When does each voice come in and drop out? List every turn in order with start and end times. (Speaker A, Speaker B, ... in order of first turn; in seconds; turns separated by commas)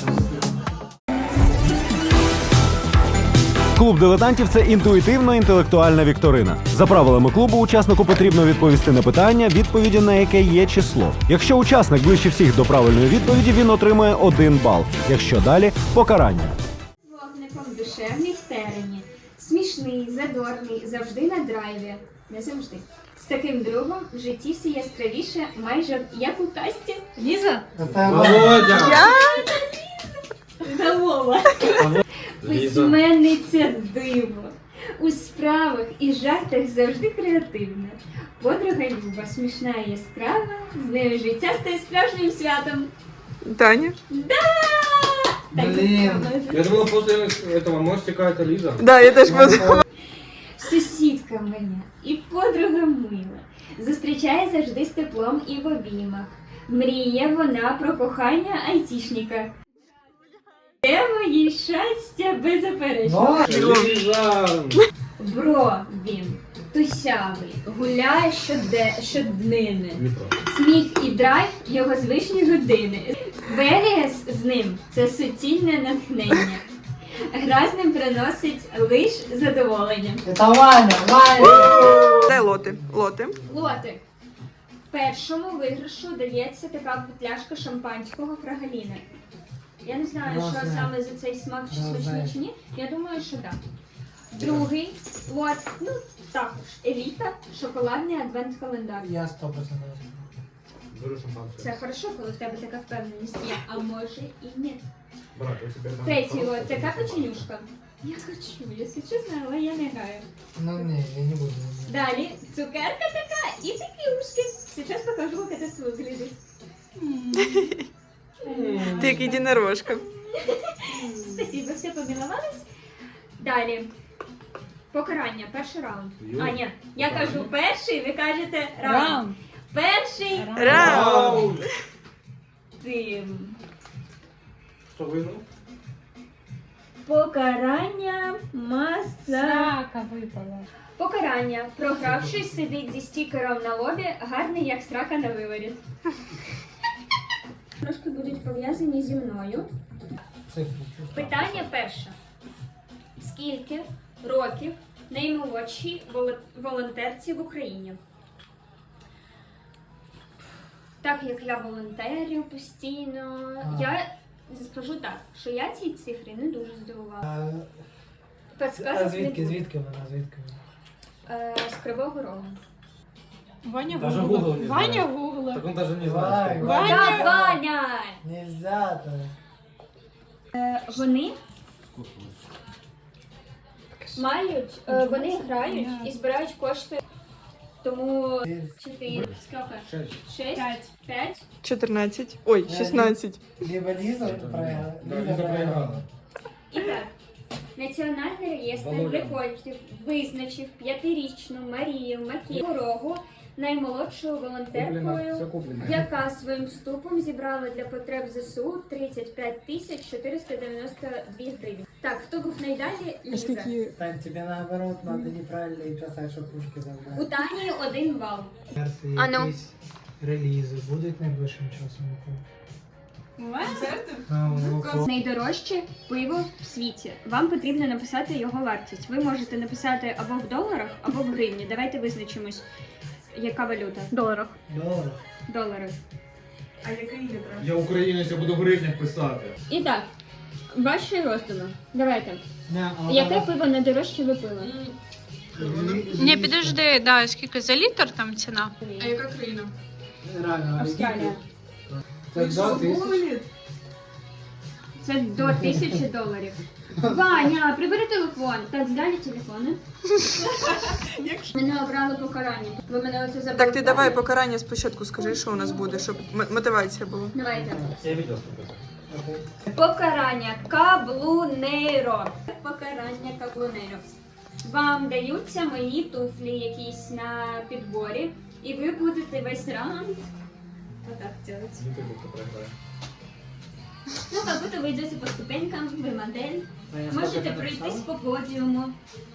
Speaker A: 3.8-16.5, Speaker B: 17.0-27.1, Speaker C: 27.1-27.6, Speaker D: 27.7-28.9, Speaker E: 27.8-29.1, Speaker B: 28.7-29.5, Speaker F: 28.8-29.5, Speaker B: 30.6-42.9, Speaker E: 31.8-33.0, Speaker F: 43.4-43.9, Speaker B: 44.1-46.8, Speaker D: 45.5-46.3, Speaker E: 46.5-48.9, Speaker F: 48.8-49.8, Speaker D: 49.2-49.8, Speaker B: 50.6-59.5, Speaker B: 60.8-63.5, Speaker D: 63.0-63.6, Speaker E: 63.4-64.9, Speaker F: 63.5-63.9, Speaker B: 65.2-76.6, Speaker E: 70.0-70.3, Speaker B: 77.3-80.2, Speaker D: 80.2-83.8, Speaker F: 81.4-83.3, Speaker B: 83.5-84.0, Speaker B: 84.9-89.0, Speaker B: 89.8-93.6, Speaker D: 90.2-91.0, Speaker D: 91.7-92.3, Speaker B: 94.3-99.1, Speaker E: 94.4-94.7, Speaker D: 99.0-100.2, Speaker E: 100.9-101.8, Speaker B: 101.6-104.8, Speaker E: 105.3-107.5, Speaker B: 106.0-110.2, Speaker D: 110.5-111.9, Speaker B: 111.9-116.4, Speaker C: 117.0-117.7, Speaker E: 118.4-119.2, Speaker B: 118.5-119.2, Speaker C: 118.6-119.5, Speaker F: 118.8-120.0, Speaker B: 119.9-122.7, Speaker B: 123.4-123.9, Speaker B: 124.9-130.7, Speaker E: 126.2-127.5, Speaker C: 128.8-129.3, Speaker C: 130.3-131.0, Speaker F: 130.6-131.6, Speaker E: 130.6-131.7, Speaker B: 132.8-133.6, Speaker E: 134.9-135.4, Speaker B: 137.0-139.7, Speaker C: 139.3-140.7, Speaker B: 140.9-145.8, Speaker D: 142.0-142.3, Speaker B: 147.8-149.7, Speaker D: 150.5-151.7, Speaker B: 151.1-152.1, Speaker B: 153.2-158.0, Speaker B: 161.0-167.2, Speaker D: 163.6-163.9, Speaker D: 167.2-167.7, Speaker B: 168.5-169.7, Speaker D: 168.7-170.6, Speaker B: 171.2-172.6, Speaker C: 173.6-175.7, Speaker E: 173.9-176.8, Speaker D: 174.2-174.5, Speaker D: 176.0-177.6, Speaker C: 176.6-177.3, Speaker B: 176.7-178.2, Speaker D: 178.2-179.3, Speaker B: 180.5-181.4, Speaker B: 184.1-187.0, Speaker C: 184.9-186.1, Speaker B: 187.8-191.4, Speaker D: 188.4-188.7, Speaker E: 189.1-190.2, Speaker C: 190.5-190.8, Speaker F: 191.6-193.4, Speaker D: 192.6-196.1, Speaker E: 194.2-196.0, Speaker B: 196.7-197.1, Speaker B: 197.8-213.7, Speaker E: 198.7-199.4, Speaker E: 204.7-206.1, Speaker D: 213.9-217.3, Speaker B: 217.1-218.6, Speaker D: 218.7-222.4, Speaker B: 219.2-219.5, Speaker C: 223.4-223.8, Speaker F: 223.6-223.9, Speaker D: 224.3-225.1, Speaker B: 224.5-232.6, Speaker B: 233.3-234.1, Speaker D: 234.7-235.2, Speaker B: 235.5-236.0, Speaker F: 236.8-237.7, Speaker E: 237.6-239.6, Speaker B: 239.7-240.1, Speaker B: 240.7-242.4, Speaker D: 242.7-243.5, Speaker B: 243.1-244.7, Speaker F: 244.6-244.9, Speaker D: 245.5-246.8, Speaker F: 245.5-246.1, Speaker C: 246.2-249.5, Speaker B: 248.8-249.2, Speaker F: 249.1-249.7, Speaker D: 250.2-253.2, Speaker B: 250.8-251.4, Speaker F: 252.4-253.4, Speaker B: 255.0-259.8, Speaker D: 255.4-256.0, Speaker B: 260.3-261.0, Speaker F: 261.2-261.5, Speaker B: 261.5-264.2, Speaker F: 263.6-267.3, Speaker B: 265.2-265.9, Speaker B: 267.3-267.9, Speaker D: 267.5-268.0, Speaker E: 268.0-268.8, Speaker D: 269.1-269.5, Speaker B: 269.7-274.0, Speaker B: 274.6-280.3, Speaker B: 281.0-281.8, Speaker E: 281.8-282.7, Speaker B: 284.2-288.9, Speaker D: 286.9-288.1